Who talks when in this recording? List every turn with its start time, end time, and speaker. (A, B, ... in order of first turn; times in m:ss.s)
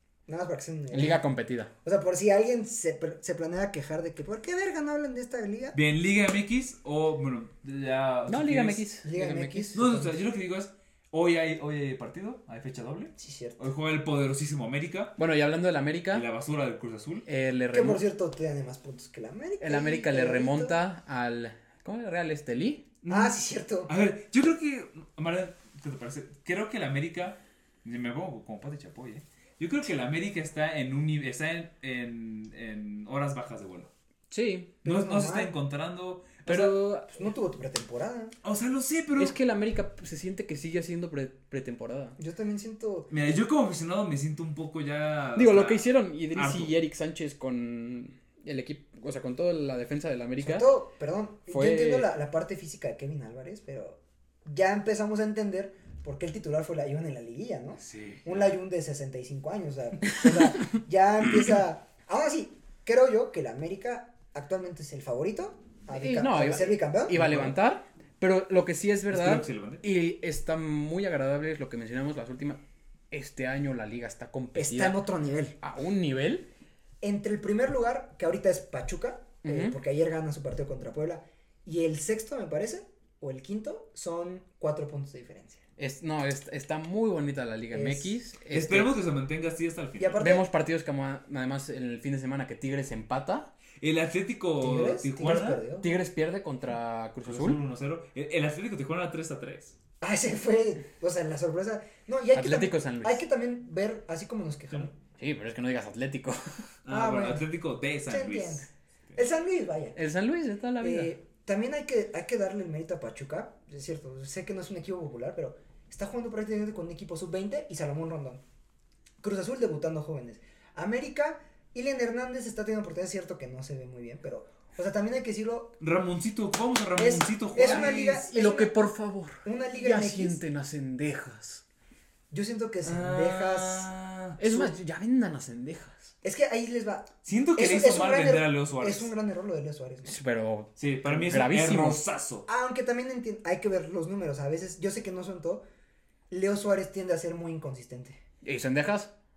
0:00.3-0:01.2 A
0:00.9-0:01.7 B
0:01.8-0:05.8 A
0:05.7-0:08.9 C
0:08.3-0:09.8 B
0:09.0-0:10.2 A
0:09.7-0:15.2 C
0:13.2-0:13.6 A
0:15.2-0:16.3 B
0:16.1-0:17.3 C
0:17.3-0:18.0 B
0:17.7-0:20.8 A
0:19.6-0:22.8 B
0:23.0-0:33.9 C
0:23.1-0:23.9 A
0:34.3-0:34.7 B
0:34.8-0:36.5 C
0:34.8-0:35.5 A
0:36.5-0:38.3 A
0:36.5-0:37.3 B
0:38.4-0:39.4 C
0:39.2-0:42.2 B
0:42.2-0:43.1 A
0:43.1-0:46.8 C
0:45.4-0:50.7 B
0:50.4-1:07.4 A
0:51.5-0:52.1 B
0:57.8-0:58.5 C
1:05.9-1:12.6 B
1:07.2-1:07.5 C
1:09.1-1:09.8 C
1:13.1-1:15.0 B
1:14.6-1:15.6 A
1:15.6-1:16.5 B
1:17.0-1:25.6 A
1:19.4-1:19.8 B
1:25.8-1:29.0 B
1:27.7-1:28.2 A
1:28.5-1:30.2 C
1:30.0-1:30.5 A
1:30.2-1:33.5 B
1:33.8-1:35.6 C
1:34.6-1:35.9 A
1:35.8-1:37.6 B
1:37.2-1:39.8 C
1:40.0-1:44.9 A
1:42.3-1:43.2 B
1:45.2-1:46.5 B
1:46.8-1:49.2 C
1:46.9-1:47.5 A
1:48.1-1:50.0 A
1:50.0-1:51.1 B
1:50.8-1:58.4 A
1:59.2-2:05.8 A
2:05.8-2:08.0 C
2:07.0-2:08.7 A
2:07.6-2:11.6 B
2:09.4-2:10.4 A
2:12.3-2:13.9 A
2:12.8-2:14.4 C
2:14.4-2:16.1 B
2:14.4-2:14.7 A
2:16.2-2:20.2 A
2:17.2-2:19.1 C
2:20.1-2:22.0 B
2:20.8-2:22.5 C
2:22.5-2:25.6 A
2:26.3-2:28.2 A
2:28.4-2:29.1 B